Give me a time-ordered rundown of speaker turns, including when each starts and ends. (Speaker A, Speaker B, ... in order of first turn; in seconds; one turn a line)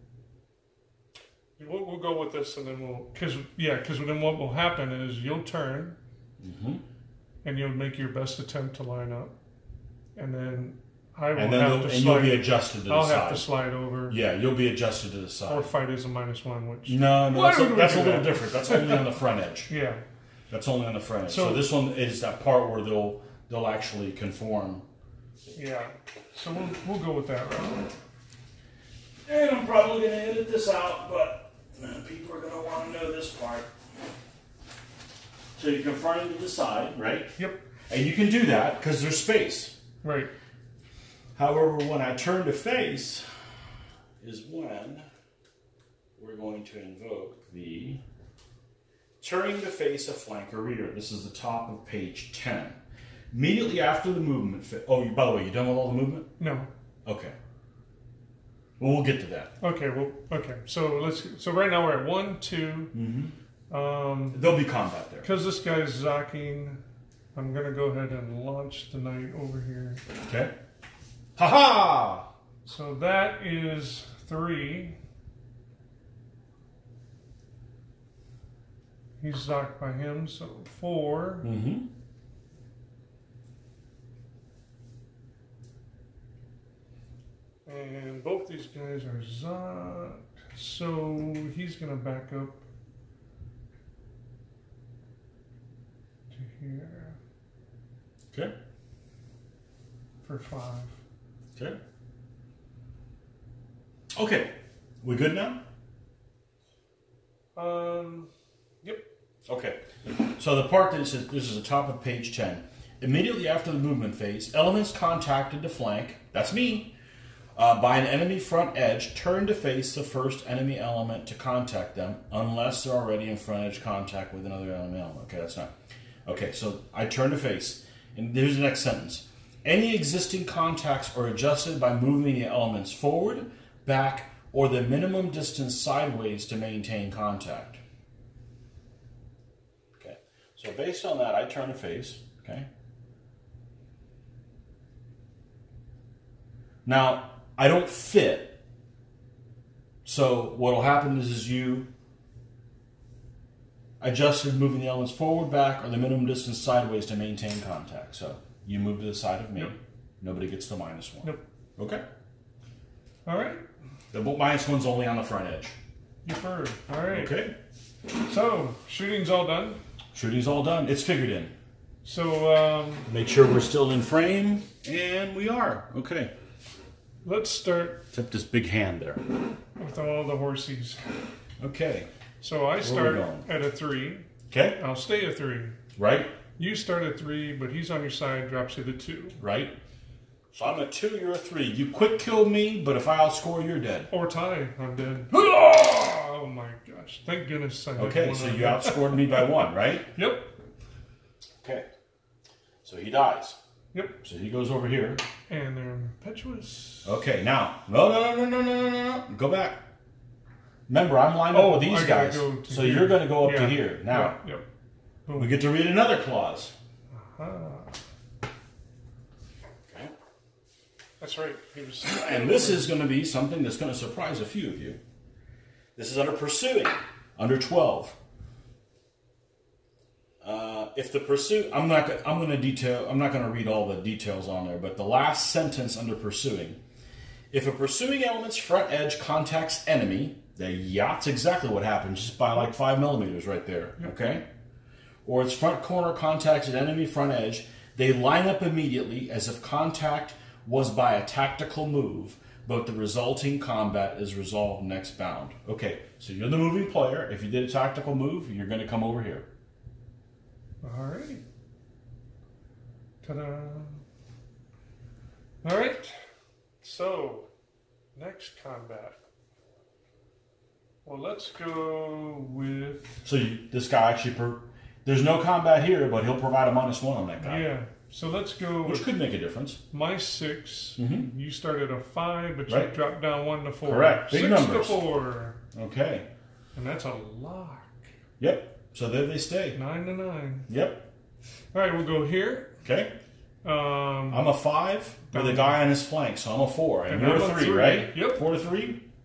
Speaker A: 1.6-6.0
Speaker B: 6.4-6.8
Speaker A: 7.4-9.3
Speaker A: 10.2-14.2
Speaker B: 11.3-13.5
Speaker B: 14.1-15.7
Speaker A: 15.5-19.1
Speaker B: 16.9-19.7
Speaker A: 19.7-20.0
Speaker B: 20.5-24.8
Speaker A: 21.3-21.6
Speaker A: 25.5-27.9
Speaker B: 29.2-33.7
Speaker B: 35.6-37.4
Speaker A: 37.4-37.6
Speaker B: 37.9-39.8
Speaker A: 40.0-40.3
Speaker B: 41.3-43.2
Speaker B: 44.2-45.0
Speaker B: 46.2-48.0
Speaker B: 49.2-52.8
Speaker B: 53.3-56.3
Speaker A: 56.4-56.7
Speaker B: 57.0-57.4
Speaker B: 58.8-59.5
Speaker A: 59.6-62.9
Speaker B: 62.9-63.3
Speaker A: 63.7-64.5
Speaker B: 64.3-65.3
Speaker A: 65.2-66.8
Speaker A: 67.3-70.0
Speaker B: 70.2-70.5
Speaker B: 71.3-72.3
Speaker A: 72.6-75.0
Speaker A: 79.2-81.5
Speaker B: 81.4-81.9
Speaker A: 87.7-92.6
Speaker A: 96.3-97.2
Speaker A: 100.2-101.0
Speaker B: 104.1-105.6
Speaker A: 107.5-108.3
Speaker B: 109.5-116.9
Speaker B: 117.5-125.7
Speaker B: 126.2-137.8
Speaker B: 140.0-142.7
Speaker B: 146.8-148.6
Speaker B: 150.0-151.9
Speaker B: 154.0-162.0
Speaker A: 163.2-163.6
Speaker B: 164.1-165.7
Speaker A: 166.2-167.3
Speaker B: 167.1-167.6
Speaker A: 168.1-169.8
Speaker B: 170.1-171.5
Speaker A: 172.0-173.1
Speaker B: 173.1-176.3
Speaker A: 177.2-178.0
Speaker B: 178.1-179.2
Speaker A: 179.8-181.2
Speaker B: 181.6-182.1
Speaker A: 182.4-185.8
Speaker B: 182.8-183.5
Speaker B: 184.5-184.8
Speaker B: 185.9-186.3
Speaker A: 186.6-189.4
Speaker B: 189.4-189.8
Speaker B: 190.5-194.1
Speaker A: 194.1-199.5
Speaker B: 198.0-200.1
Speaker A: 200.1-200.5
Speaker B: 201.6-201.8
Speaker B: 202.8-203.6
Speaker A: 203.9-204.2
Speaker B: 204.2-205.2
Speaker A: 205.5-207.1
Speaker B: 207.0-209.8
Speaker B: 210.9-214.4
Speaker A: 211.5-214.6
Speaker A: 215.2-215.6
Speaker B: 215.4-216.7
Speaker A: 217.1-217.9
Speaker B: 219.9-220.1
Speaker A: 221.2-222.9
Speaker B: 222.0-225.0
Speaker B: 225.9-228.2
Speaker B: 230.4-236.8
Speaker B: 237.5-244.4
Speaker B: 245.2-259.5
Speaker A: 260.8-261.4
Speaker A: 263.2-264.0
Speaker A: 265.6-266.2
Speaker A: 266.8-267.5
Speaker A: 268.1-269.1
Speaker A: 271.0-273.2
Speaker B: 273.2-277.7
Speaker A: 277.4-279.1
Speaker B: 278.8-279.8
Speaker A: 279.9-285.6
Speaker B: 281.0-281.3
Speaker B: 282.7-282.9
Speaker B: 283.8-285.0
Speaker B: 285.7-286.3
Speaker A: 286.7-288.1
Speaker B: 288.4-289.8
Speaker A: 289.7-290.7
Speaker B: 290.7-291.1
Speaker A: 291.7-292.7
Speaker B: 292.8-293.1
Speaker A: 293.6-294.5
Speaker B: 294.3-299.0
Speaker A: 295.3-295.8
Speaker A: 297.1-298.4